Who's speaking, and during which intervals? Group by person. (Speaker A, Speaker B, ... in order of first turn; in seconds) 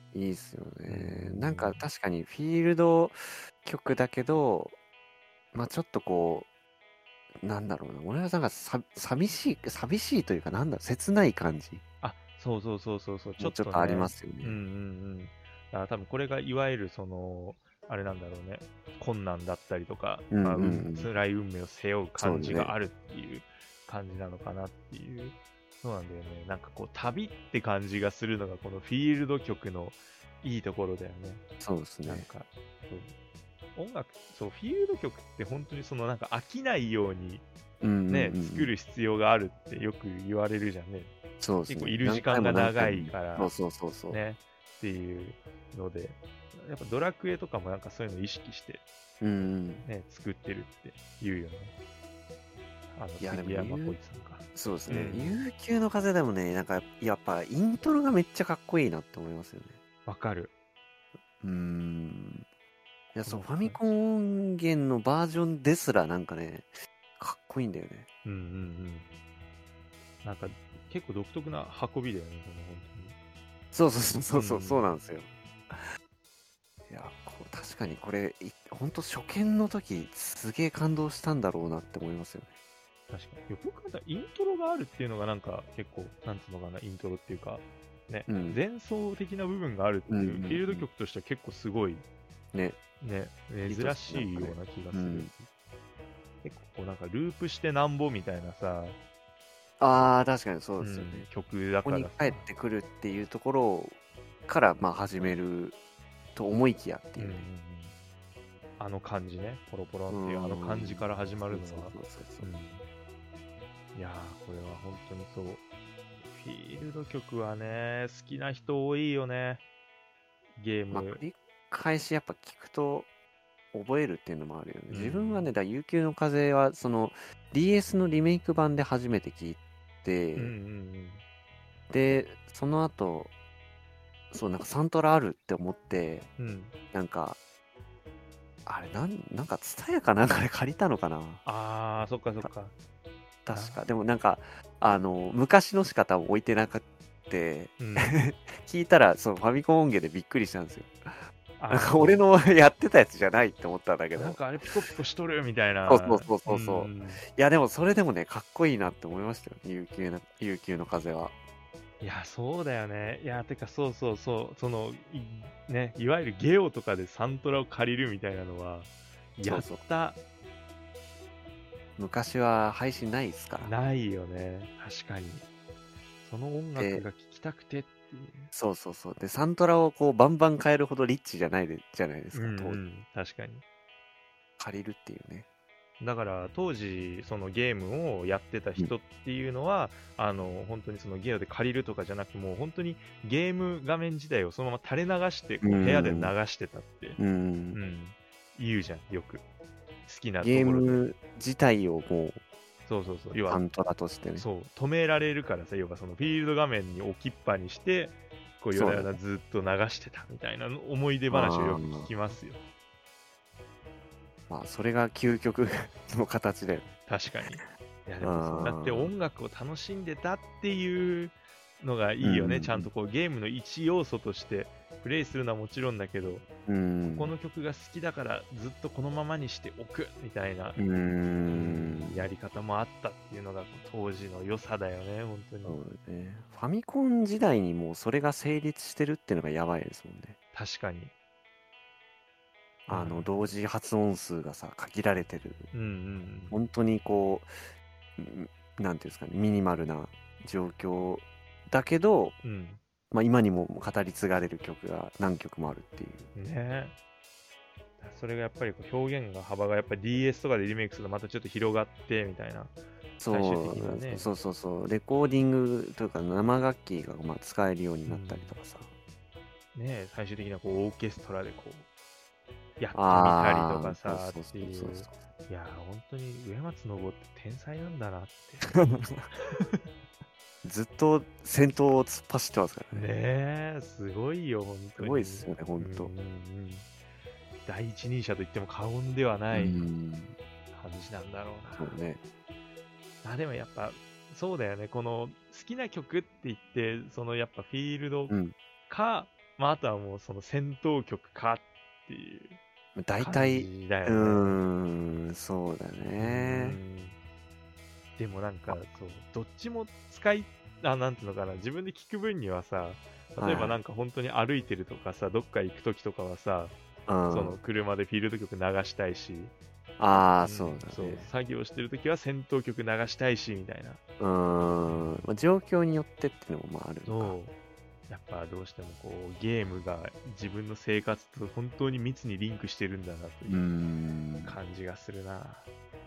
Speaker A: 0.1-4.8, 5.5-6.5, 7.4-11.8, 13.4-14.6, 20.3-21.1, 22.2-22.7, 31.6-32.3, 37.8-38.7, 41.4-44.2, 49.2-49.9, 53.2-54.0, 54.5-59.8, 61.4-62.5, 63.1-68.1, 73.7-75.9, 76.9-82.5, 88.3-88.6, 90.1-90.9, 92.5-92.8, 93.7-95.3, 99.8-101.3, 101.8-105.8, 106.3-107.5, 110.1-112.5, 120.9-123.1, 123.7-130.5, 131.9-133.3, 134.3-136.3, 136.9-137.4, 138.7-141.4, 143.5-151.2, 151.7-154.4, 155.9-161.3, 169.4-169.8, 172.0-173.7, 176.8-177.1, 178.5-182.8, 184.6-185.5, 195.6-196.3, 197.2-197.8, 200.4-202.4, 203.5-204.5, 208.7-209.2, 211.3-212.1, 214.5-216.9, 218.2-219.1, 222.2-222.9, 226.7-227.3, 230.8-232.2, 235.7-240.4, 242.9-245.7, 246.5-247.5, 248.2-252.4, 253.1-256.3, 263.2-268.9, 272.9-275.1, 278.8-279.2, 280.6-283.1, 285.0-286.1, 289.5-290.4, 291.8-292.2, 298.3-298.5, 303.0-306.8, 313.4-313.8, 317.1-317.6, 320.0-321.3, 324.2-327.4, 333.5-334.6
Speaker B: 0.9-1.8, 12.0-31.4, 32.1-33.1, 33.8-37.5, 38.1-41.1, 41.7-43.5, 44.1-48.8, 49.8-51.7, 52.9-55.4, 60.1-60.5, 63.2-63.9, 68.2-69.1, 70.2-73.2, 74.3-74.9, 83.1-92.0, 93.0-95.4, 96.4-99.0, 100.8-102.5, 107.2-108.0, 108.8-112.9, 113.9-115.6, 116.2-119.6, 120.6-121.2, 124.9-125.5, 130.4-131.2, 136.4-136.7, 141.4-142.7, 143.5-143.8, 147.8-148.2, 151.6-152.2, 154.2-157.2, 162.0-170.2, 173.6-175.4, 176.2-178.5, 182.3-183.6, 186.0-197.2, 197.7-199.4, 200.1-201.0, 202.9-203.6, 204.4-212.6, 217.1-226.5, 227.1-230.8, 231.5-235.8, 240.5-241.1, 242.9-243.3, 245.7-246.6, 252.4-252.8, 256.4-256.9, 258.0-262.8, 263.3-264.3, 268.1-268.6, 269.7-271.9, 272.8-278.7, 279.3-279.7, 282.9-286.9, 287.7-289.9, 290.7-292.0, 293.2-298.4, 298.9-302.6, 303.2-304.6, 306.2-307.2, 308.2-316.8, 317.3-319.5, 320.4-324.0, 324.9-325.2, 327.1-327.5, 328.1-333.7, 334.4-335.7